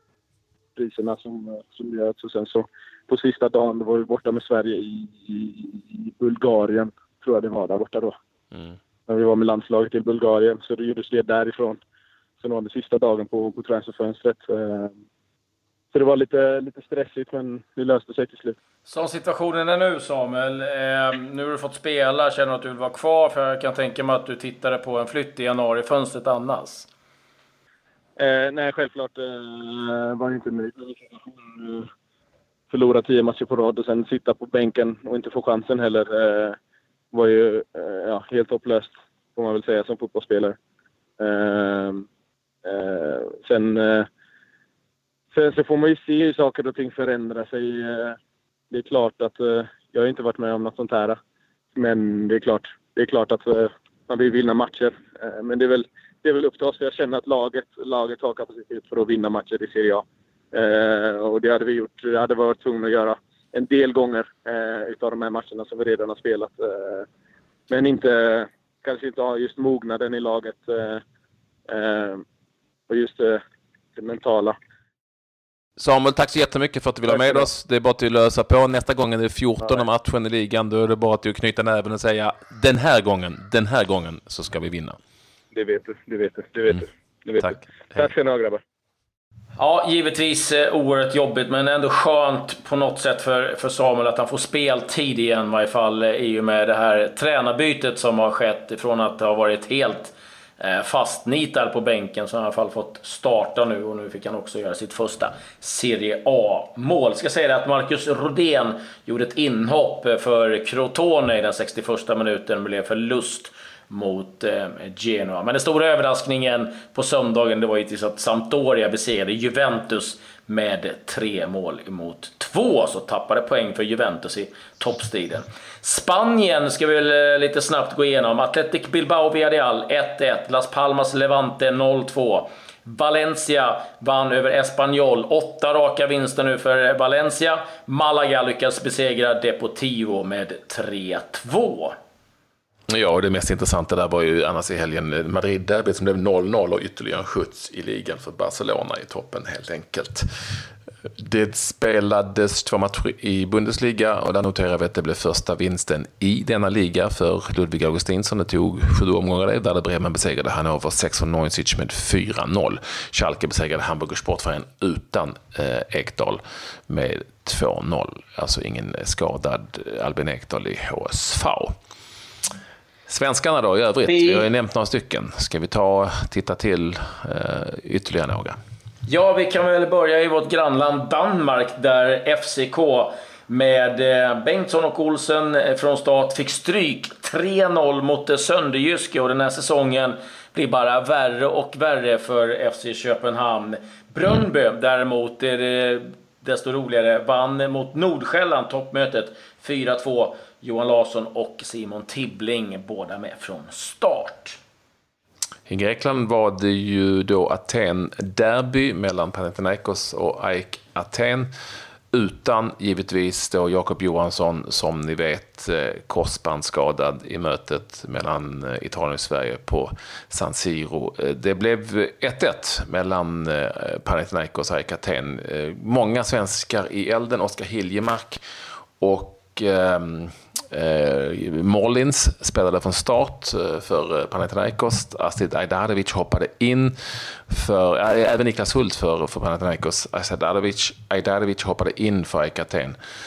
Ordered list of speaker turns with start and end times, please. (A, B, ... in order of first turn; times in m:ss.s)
0:00.8-0:08.1 A
0:09.1-0:11.8 A
0:12.4-0:14.9 A
0:15.9-0:18.6 A
0:18.9-0:26.9 B
0:28.2-0:31.9 A
0:32.7-0:36.6 A
0:37.1-0:40.6 A
0:41.2-0:42.0 A
0:42.6-0:44.1 A
0:45.3-0:48.2 A
0:48.7-0:51.2 A
0:51.8-1:07.1 A
1:07.7-1:11.0 A
1:11.7-1:12.2 A
1:12.9-1:13.4 A
1:14.0-1:14.6 A
1:15.8-1:25.0 C
1:17.1-1:17.4 A
1:25.5-1:28.6 A
1:27.4-1:28.1 C
1:29.6-2:22.0 B
2:22.9-2:30.3 C
2:31.2-2:51.7 C
2:53.1-2:58.6 C
2:54.1-2:54.5 B
2:59.1-3:24.6 B
3:25.7-3:31.5 C
3:32.1-3:48.4 C
3:49.0-3:57.0 C
3:57.5-4:03.0 C